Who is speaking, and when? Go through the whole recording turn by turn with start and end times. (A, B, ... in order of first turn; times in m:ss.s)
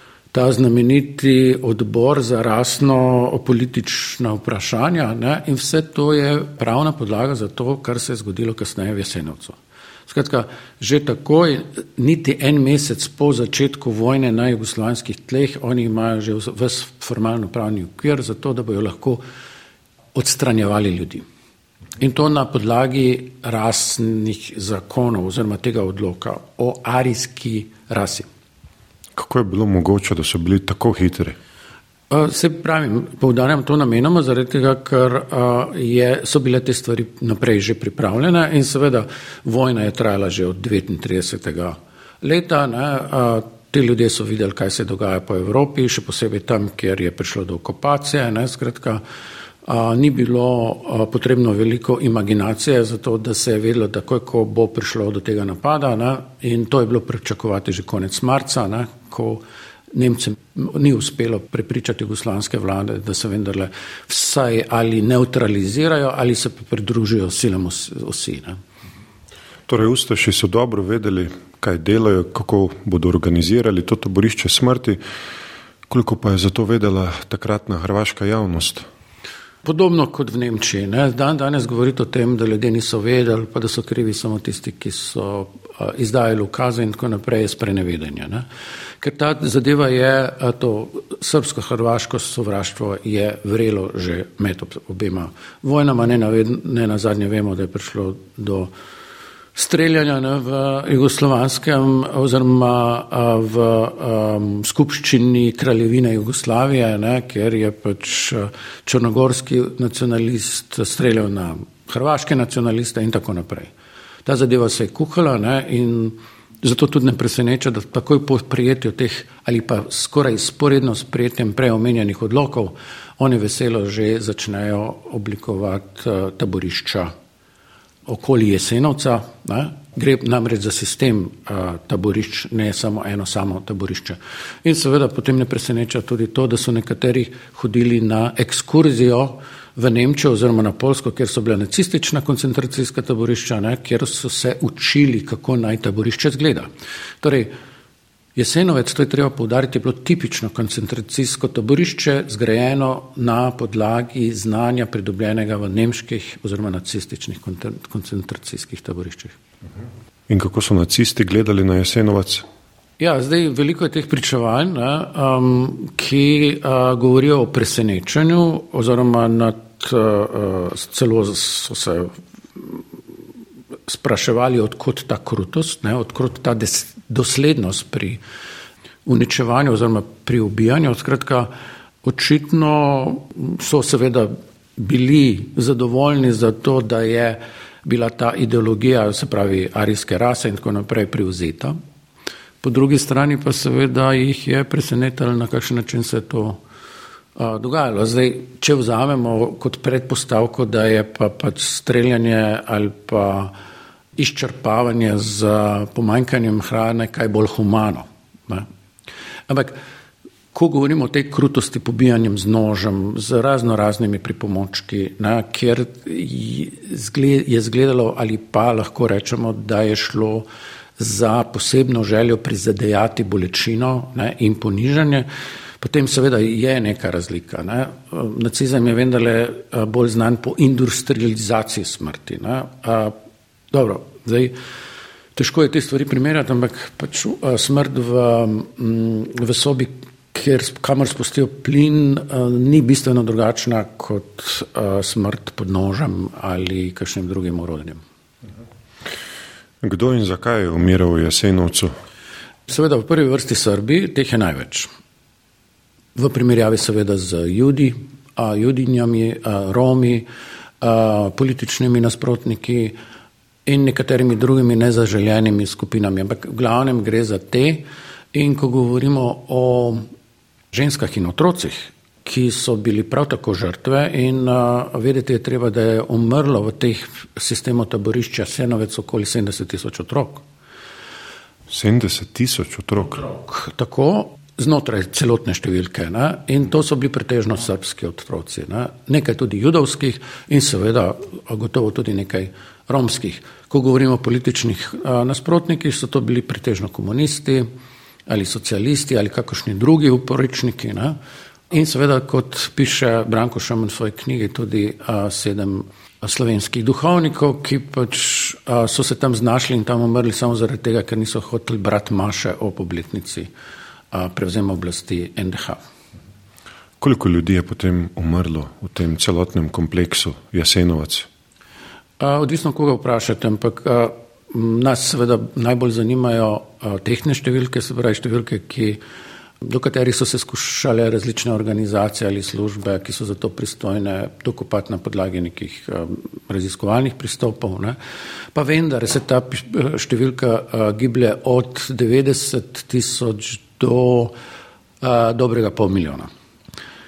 0:00.3-0:19.2 A
0:20.1-0:21.2 A
0:22.0-0:28.3 A
0:29.1-0:31.4 B
0:32.1-0:49.0 A
0:49.6-1:08.6 A
1:09.7-1:15.0 B
1:15.9-1:18.8 B
1:19.6-1:28.4 A
1:29.0-1:38.7 A
1:39.5-1:53.7 A
1:54.2-2:07.1 A
2:08.0-2:26.7 A
2:27.2-2:27.5 A
2:28.3-2:39.4 A
2:40.3-2:42.4 B
2:43.0-2:52.8 A
2:53.9-2:58.2 A
2:59.0-3:01.5 A
3:02.0-3:11.8 A
3:12.6-3:16.6 A
3:17.4-3:23.5 A
3:24.2-3:28.7 A
3:29.5-3:29.8 A
3:30.5-3:40.5 A
3:41.0-3:45.3 A
3:45.8-3:53.1 A
3:53.7-3:54.6 A
3:55.3-4:08.0 A
4:09.8-4:11.9 B
4:12.7-4:14.9 A
4:16.1-4:20.3 A
4:20.8-4:23.0 A
4:23.6-4:30.0 A
4:30.7-4:40.4 A
4:41.7-4:43.2 B
4:43.3-4:57.7 A
4:58.3-5:01.2 A
5:01.7-5:13.5 A
5:14.1-5:15.8 A
5:17.0-5:21.3 B
5:22.2-5:29.0 A
5:29.6-5:38.0 A
5:38.5-5:44.3 A
5:45.0-5:46.3 A